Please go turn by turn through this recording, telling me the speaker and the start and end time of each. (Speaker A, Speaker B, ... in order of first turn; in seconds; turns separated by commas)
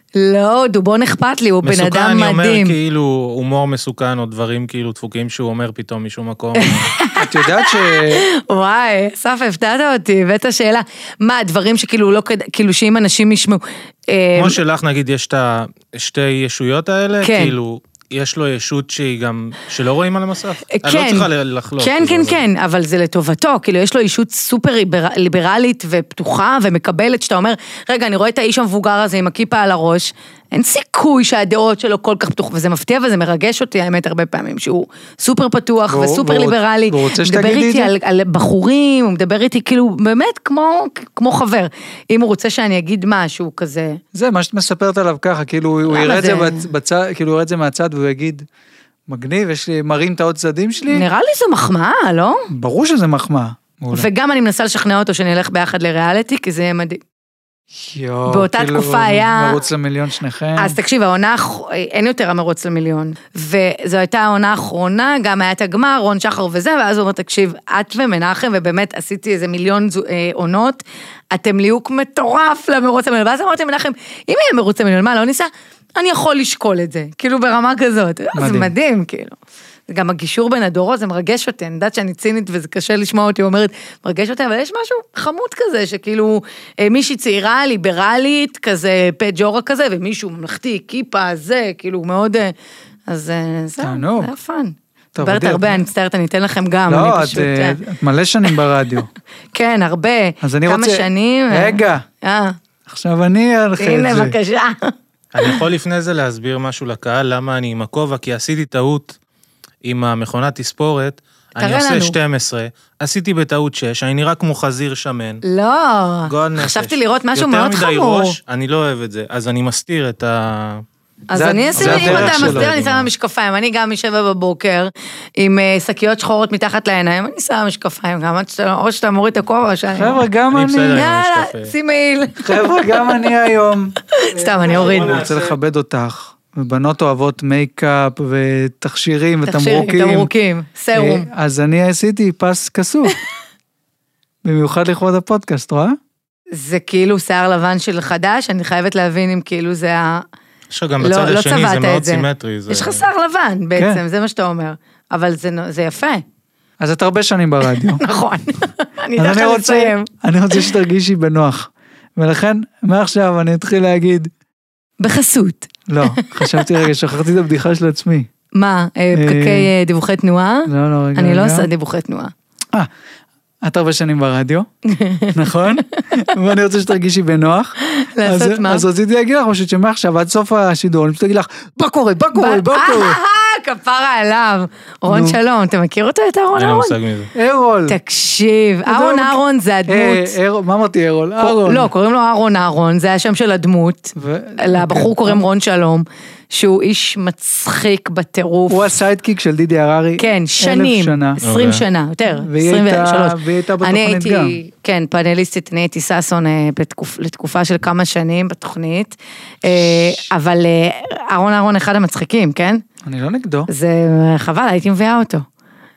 Speaker A: 0.1-2.7, Speaker B: 1.6-6.9, Speaker A: 6.5-14.6, Speaker C: 7.2-8.3, Speaker B: 14.3-22.4, Speaker A: 17.2-17.6, Speaker A: 20.7-21.3, Speaker A: 21.8-44.0, Speaker C: 35.9-37.9, Speaker C: 44.1-48.5, Speaker A: 45.9-46.6, Speaker C: 49.1-51.0, Speaker A: 50.9-52.5, Speaker C: 52.5-54.1, Speaker A: 53.9-57.0, Speaker C: 57.7-60.8, Speaker A: 58.3-59.6, Speaker A: 60.6-79.3, Speaker C: 78.3-78.7, Speaker A: 79.9-92.5, Speaker A: 93.1-97.8, Speaker C: 93.8-94.3, Speaker C: 95.1-95.9, Speaker C: 96.9-99.1, Speaker A: 99.5-102.5, Speaker C: 100.4-102.0, Speaker C: 102.9-104.4, Speaker A: 103.8-105.6, Speaker B: 105.3-109.2, Speaker B: 109.8-115.4, Speaker A: 111.6-112.2, Speaker A: 115.4-118.4, Speaker B: 116.3-120.8, Speaker A: 121.3-130.2, Speaker C: 121.3-122.7, Speaker B: 121.8-123.1, Speaker C: 129.9-131.0, Speaker B: 130.5-131.7, Speaker A: 130.9-133.2, Speaker C: 132.4-140.3, Speaker A: 134.1-135.2, Speaker B: 134.7-135.5, Speaker A: 139.4-141.3, Speaker C: 140.9-143.2, Speaker C: 144.4-145.9, Speaker A: 146.5-150.2, Speaker B: 150.7-153.1, Speaker A: 151.0-156.2, Speaker C: 153.8-154.0, Speaker C: 156.8-158.0, Speaker A: 157.7-160.7, Speaker C: 159.2-164.3, Speaker A: 165.0-166.7, Speaker C: 165.9-168.3, Speaker A: 168.5-172.3, Speaker C: 169.1-169.7, Speaker C: 170.7-171.7, Speaker C: 173.6-174.7, Speaker A: 174.8-176.1, Speaker C: 175.3-183.2, Speaker A: 177.8-178.8, Speaker A: 182.3-186.9, Speaker C: 185.1-185.4, Speaker B: 186.5-187.3, Speaker C: 187.3-188.0, Speaker A: 187.9-190.3, Speaker C: 188.9-191.9, Speaker A: 191.4-198.9, Speaker C: 194.2-195.4, Speaker C: 198.7-201.4, Speaker A: 200.2-212.8, Speaker B: 201.4-201.8, Speaker C: 202.4-204.6, Speaker C: 209.7-210.2, Speaker C: 213.0-213.7, Speaker A: 213.7-215.4